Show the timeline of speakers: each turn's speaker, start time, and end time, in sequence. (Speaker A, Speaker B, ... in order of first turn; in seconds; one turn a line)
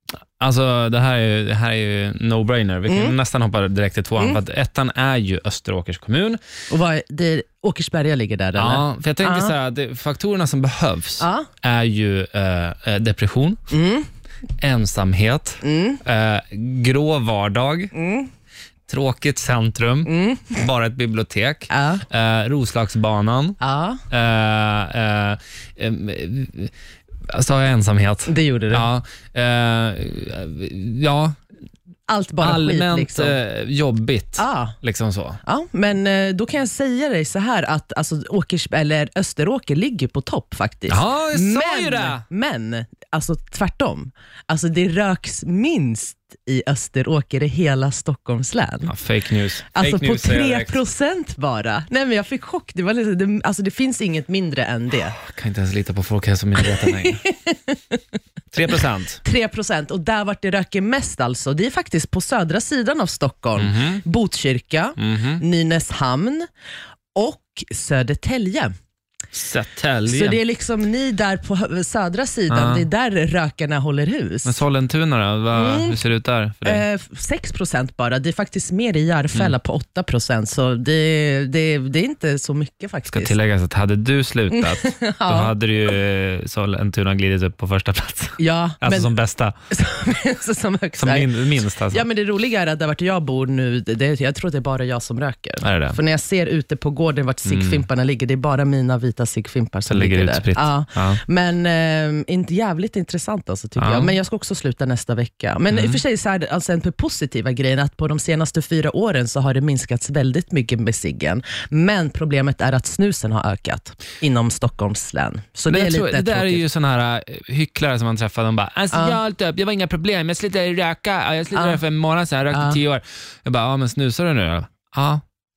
Speaker A: 0.4-6.4
Speaker B: 2.9-3.1
Speaker B: 6.7-9.5
Speaker A: 8.6-13.7
Speaker B: 11.2-11.5
Speaker B: 13.7-14.1
Speaker A: 14.6-17.9
Speaker B: 15.6-16.0
Speaker B: 17.9-18.3
Speaker A: 18.9-23.6
Speaker B: 20.1-20.6
Speaker B: 21.7-22.0
Speaker B: 23.6-24.0
Speaker A: 24.1-26.7
Speaker A: 27.3-31.4
Speaker B: 28.3-28.9
Speaker B: 32.1-33.4
Speaker A: 32.4-35.4
Speaker B: 34.4-34.8
Speaker B: 35.4-48.9
Speaker A: 40.9-42.2
Speaker A: 48.9-50.8
Speaker B: 49.7-55.2
Speaker A: 55.2-57.2
Speaker B: 56.6-58.0
Speaker A: 58.5-59.2
Speaker B: 59.2-66.5
Speaker A: 63.6-64.0
Speaker A: 65.0-65.4
Speaker B: 67.1-68.7
Speaker A: 69.3-70.4
Speaker B: 70.0-74.6
Speaker A: 72.5-72.8
Speaker A: 74.4-76.8
Speaker B: 75.5-76.0
Speaker B: 76.6-83.3
Speaker A: 83.1-89.5
Speaker B: 84.5-85.5
Speaker B: 88.4-89.1
Speaker B: 89.7-116.6
Speaker A: 91.0-92.0
Speaker A: 95.6-96.0
Speaker A: 97.4-97.8
Speaker A: 99.9-101.2
Speaker A: 103.8-104.1
Speaker A: 105.7-106.0
Speaker A: 115.7-125.2
Speaker B: 118.9-119.2
Speaker B: 121.5-121.8
Speaker B: 122.5-122.8